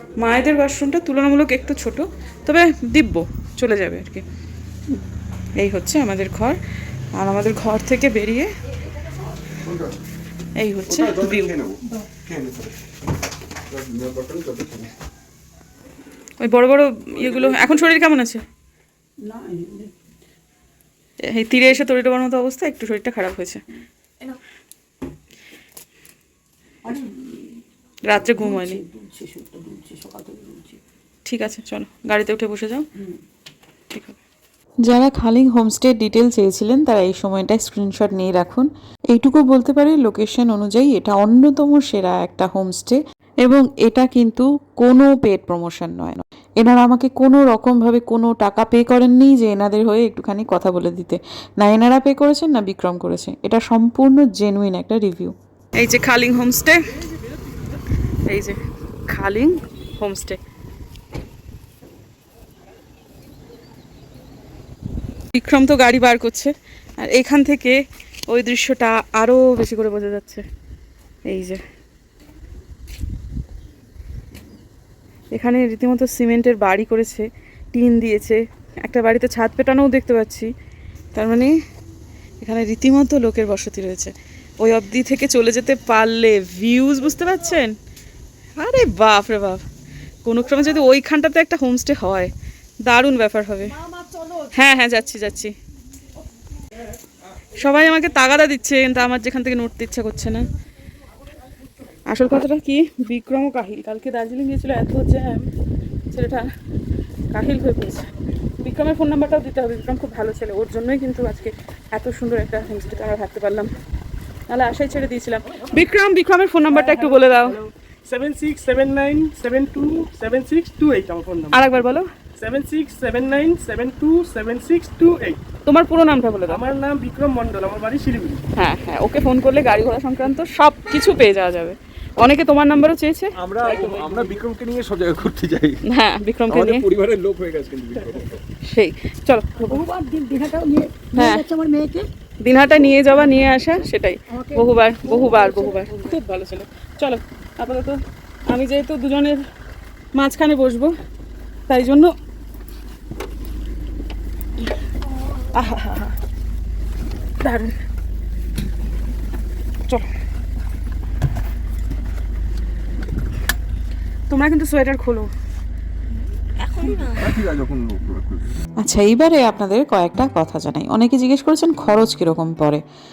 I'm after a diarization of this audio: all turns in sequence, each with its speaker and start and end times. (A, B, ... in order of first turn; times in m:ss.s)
0:00.2-0:04.2 A
0:05.6-0:06.6 A
0:07.2-0:08.5 A
0:09.6-0:10.0 B
0:10.6-0:11.6 A
0:10.9-0:12.7 B
0:13.7-0:14.9 B
0:16.4-0:18.4 A
0:17.3-0:17.8 B
0:19.2-0:19.9 C
0:21.2-0:23.6 A
0:26.8-0:27.6 C
0:28.1-0:28.8 A
0:28.2-0:30.8 C
0:31.3-0:32.8 A
0:33.9-0:34.2 A
0:34.8-0:55.4 D
0:55.8-0:56.9 A
0:58.3-1:00.4 A
1:05.3-1:10.4 A
1:11.3-1:11.6 A
1:15.3-1:20.5 A
1:21.1-1:21.5 A
1:22.4-1:27.7 A
1:28.6-1:29.6 A
1:30.2-1:32.3 A
1:32.8-1:33.7 A
1:34.5-1:35.5 A
1:37.6-1:40.5 A
1:42.1-1:45.5 A
1:46.1-1:46.5 A
1:47.3-1:48.1 A
1:48.6-1:53.7 A
1:54.5-1:57.6 A
1:56.7-2:01.6 E
2:01.5-2:02.1 A
2:02.4-2:05.4 E
2:05.7-2:06.6 A
2:06.5-2:08.4 E
2:08.6-2:13.3 A
2:13.4-2:15.8 B
2:13.6-2:14.4 E
2:15.9-2:16.8 A
2:16.5-2:18.4 B
2:18.7-2:19.8 A
2:19.7-2:22.1 C
2:21.2-2:21.4 A
2:22.4-2:28.0 A
2:24.3-2:26.1 C
2:28.5-2:29.4 A
2:30.2-2:30.9 A
2:31.7-2:32.1 A
2:35.5-2:36.1 A
2:37.4-2:37.8 A
2:44.3-2:45.3 A
2:47.0-2:48.5 B
2:48.8-2:52.8 D